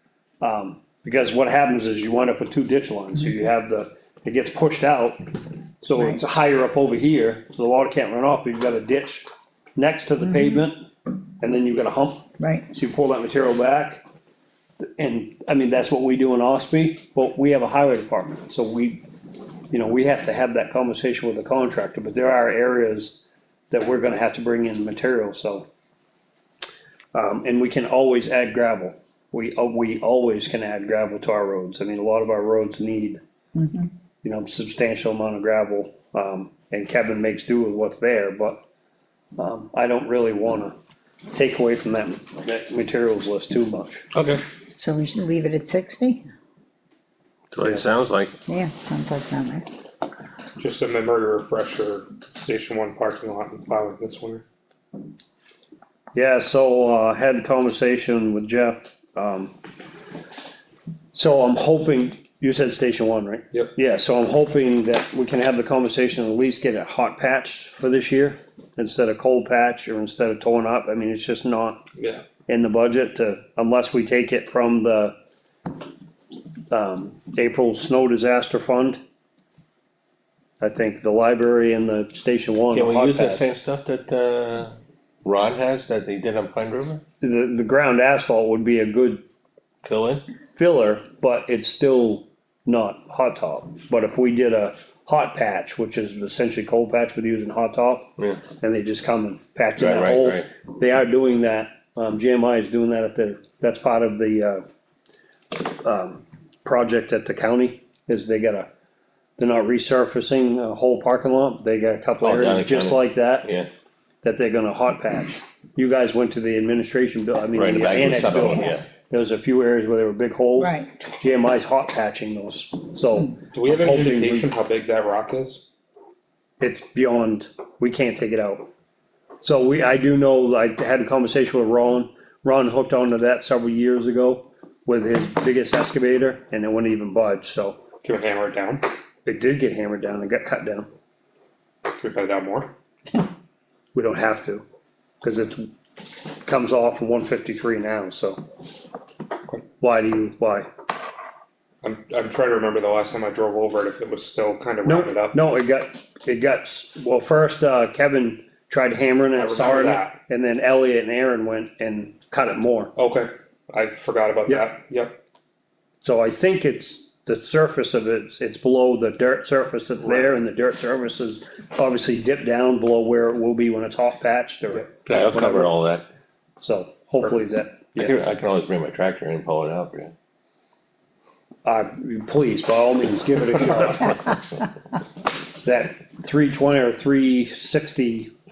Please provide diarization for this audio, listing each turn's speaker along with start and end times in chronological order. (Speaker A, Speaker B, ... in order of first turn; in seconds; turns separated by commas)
Speaker A: 0.4-10.8, Speaker B: 10.3-10.7, Speaker A: 11.4-14.0, Speaker B: 12.4-12.7, Speaker A: 14.8-19.0, Speaker A: 19.7-25.7, Speaker A: 27.1-33.2, Speaker B: 33.6-33.9, Speaker A: 34.2-38.6, Speaker A: 39.4-40.8, Speaker A: 41.3-44.1, Speaker C: 44.1-44.4, Speaker B: 44.8-46.2, Speaker C: 47.5-48.4, Speaker B: 48.5-49.7, Speaker D: 50.6-54.4, Speaker A: 56.1-59.6, Speaker A: 61.1-71.8, Speaker D: 72.0-72.2, Speaker A: 72.5-75.2, Speaker A: 76.7-79.0, Speaker A: 80.6-83.5, Speaker C: 82.7-87.0, Speaker A: 87.2-89.2, Speaker C: 89.8-90.2, Speaker A: 90.5-104.6, Speaker C: 99.8-100.5, Speaker A: 105.6-108.7, Speaker A: 109.4-113.5, Speaker C: 112.2-113.7, Speaker A: 114.2-124.5, Speaker C: 117.5-118.8, Speaker B: 120.6-120.9, Speaker D: 123.5-125.7, Speaker A: 126.6-128.7, Speaker A: 129.4-137.8, Speaker D: 138.0-138.8, Speaker A: 139.2-140.9, Speaker D: 141.9-142.7, Speaker A: 143.9-144.6, Speaker A: 145.2-145.7, Speaker A: 146.3-148.4, Speaker A: 149.8-150.7, Speaker D: 151.8-155.4, Speaker A: 154.8-162.9, Speaker D: 159.4-160.2, Speaker D: 163.0-165.2, Speaker A: 164.5-164.7, Speaker A: 166.0-175.8, Speaker C: 175.1-176.1, Speaker A: 176.6-178.2, Speaker C: 178.0-180.1, Speaker A: 181.7-184.2, Speaker A: 185.6-188.3